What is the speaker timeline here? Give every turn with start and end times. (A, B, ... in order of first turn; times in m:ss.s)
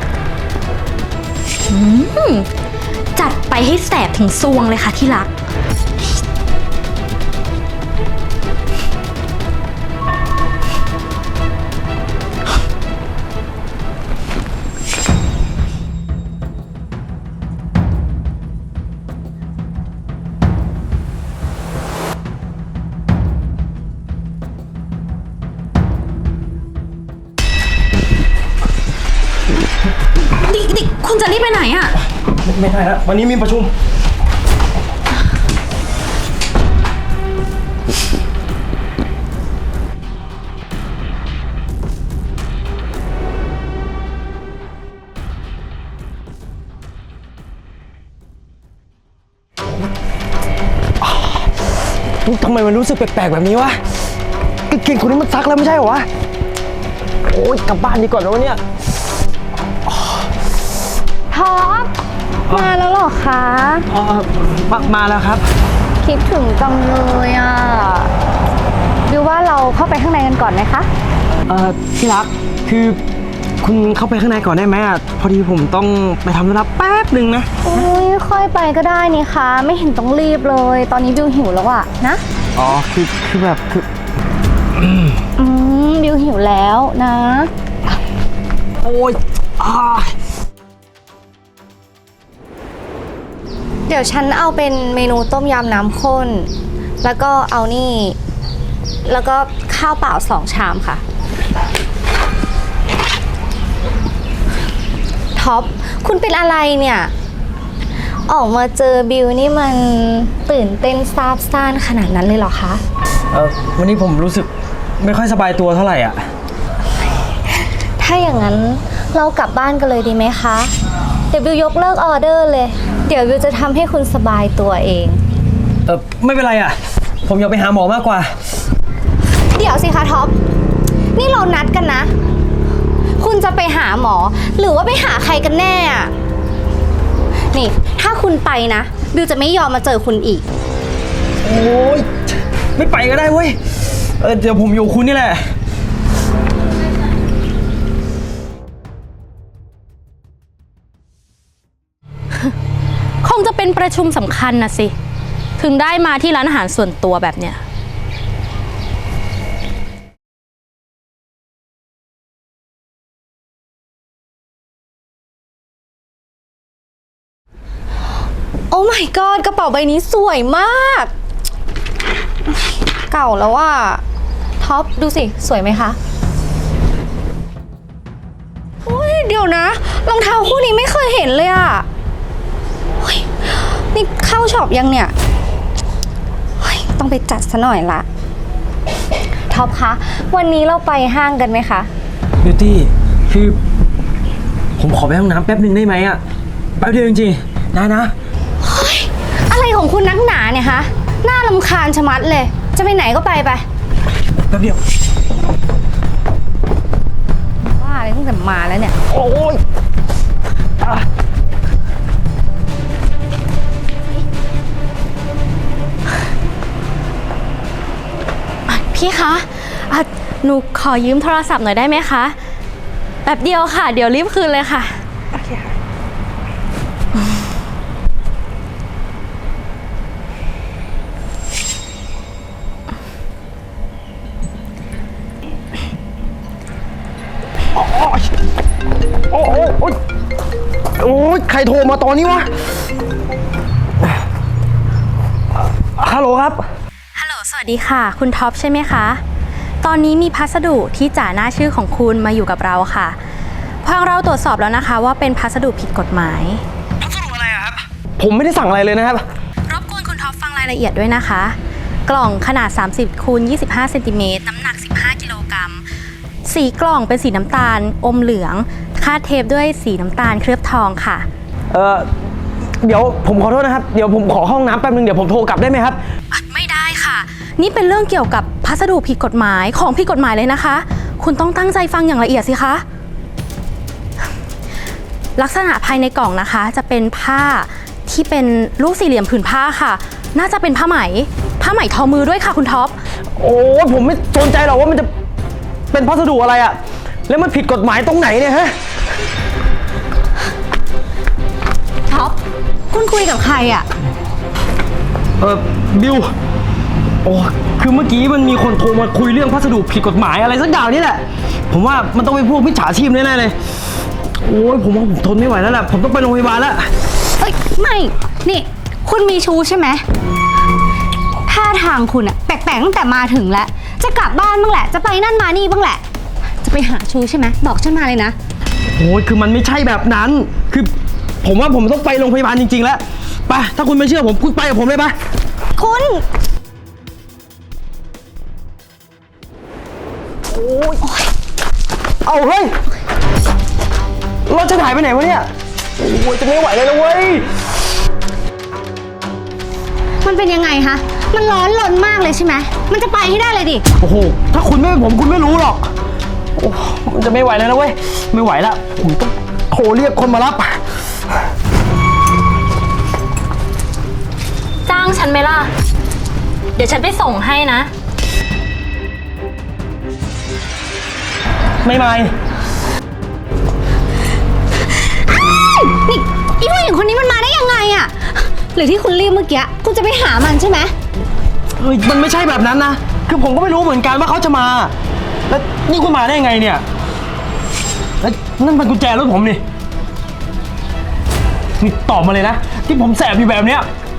0:01.7-0:02.5 A
0:03.1-0:05.3 A
0:30.3-0:32.0 A
0:32.4-0:33.7 B
0:51.0-0:51.5 B
0:52.2-0:53.8 B
0:54.7-0:56.1 B
0:57.3-0:58.6 B
1:01.3-1:01.9 C
1:02.5-1:03.9 C
1:03.9-1:05.4 B
1:06.0-1:08.1 C
1:09.1-1:10.9 C
1:11.5-1:13.0 B
1:13.6-1:17.5 B
1:17.6-1:22.2 C
1:22.5-1:23.9 B
1:24.8-1:25.2 B
1:25.4-1:27.5 C
1:28.8-1:30.1 B
1:33.9-1:36.5 C
1:37.0-1:38.2 C
1:39.0-1:41.0 C
1:45.3-1:47.1 C
1:48.2-1:52.8 C
1:53.3-1:56.3 B
1:58.0-2:00.7 C
2:01.3-2:05.2 C
2:05.8-2:08.3 B
2:09.5-2:10.3 C
2:11.1-2:12.1 C
2:13.2-2:16.1 C
2:17.5-2:20.4 C
2:21.4-2:22.1 B
2:22.8-2:25.5 B
2:33.2-2:34.9 A
2:35.6-2:37.6 A
2:48.7-2:51.1 C
2:52.7-2:54.0 C
2:54.6-2:56.0 C
2:58.8-3:01.9 C
3:03.0-3:05.1 C
3:06.6-3:08.0 C
3:09.5-3:11.9 C
3:12.4-3:13.6 B
3:14.8-3:16.2 B
3:16.8-3:18.1 B
3:18.6-3:23.6 C
3:24.5-3:24.8 B
3:27.6-3:28.9 C
3:29.1-3:29.6 B
3:38.7-3:42.4 A
3:43.2-3:45.0 A
3:57.7-3:58.3 B
3:59.3-4:00.0 B
4:01.0-4:02.5 B
4:06.0-4:06.6 B
4:07.2-4:09.2 A
4:09.8-4:13.2 A
4:13.8-4:16.6 A
4:17.0-4:19.2 B
4:19.6-4:25.8 A
4:26.4-4:31.2 A
4:31.7-4:32.1 B
4:32.8-4:36.0 B
4:36.3-4:42.8 A
4:45.4-4:53.0 A
4:53.4-4:55.1 B
4:55.9-4:56.8 B
4:57.3-4:58.8 B
5:02.1-5:02.4 C
5:02.9-5:03.9 C
5:05.4-5:06.3 B
5:07.2-5:13.6 B
5:14.4-5:16.9 B
5:17.4-5:20.0 C
5:21.4-5:26.0 C
5:26.6-5:28.4 C
5:28.9-5:35.1 B
5:35.8-5:36.2 C
5:40.5-5:41.0 B
5:42.2-5:42.8 B
5:44.4-5:47.5 B
5:50.2-5:53.8 C
5:54.0-5:55.9 B
5:56.6-6:00.8 B
6:04.8-6:05.7 A
6:06.7-6:07.9 A
6:11.8-6:12.3 B
6:15.3-6:20.9 C
6:21.8-6:24.9 B
6:25.5-6:26.8 B
6:28.2-6:29.6 B
6:31.8-6:33.9 B